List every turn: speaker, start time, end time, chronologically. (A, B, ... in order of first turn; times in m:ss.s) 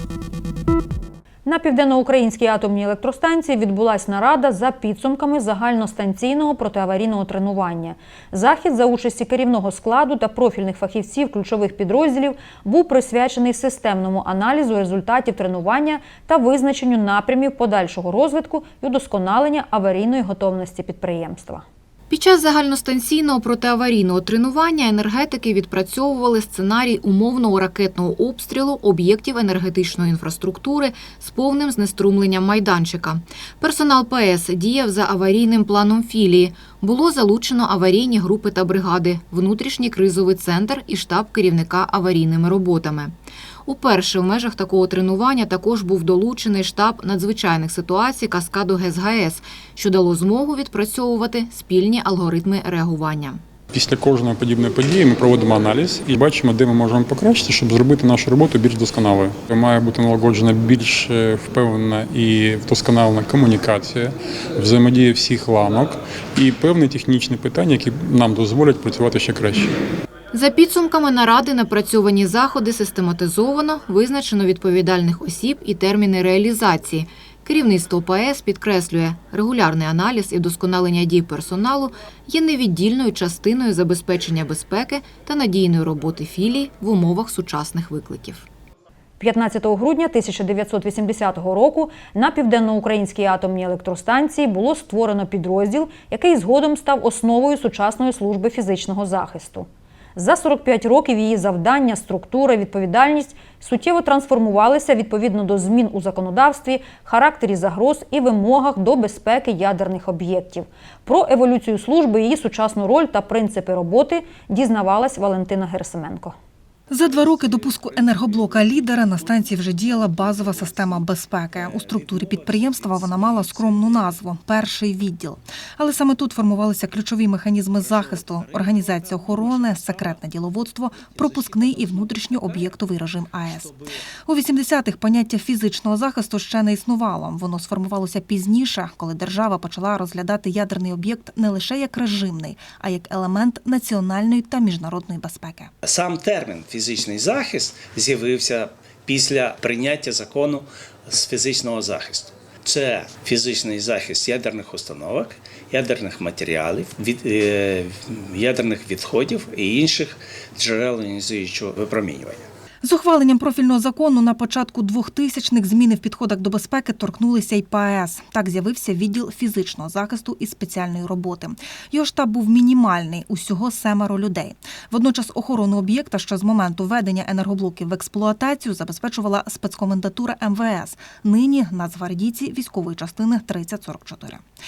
0:01.4-0:21.6 A
0:22.1-0:43.2 B
0:43.7-0:53.4 B
0:53.7-1:09.8 C
1:10.3-1:28.5 B
1:29.2-1:56.4 A
1:56.9-2:25.7 D
2:25.8-2:42.4 E
2:42.8-3:04.4 D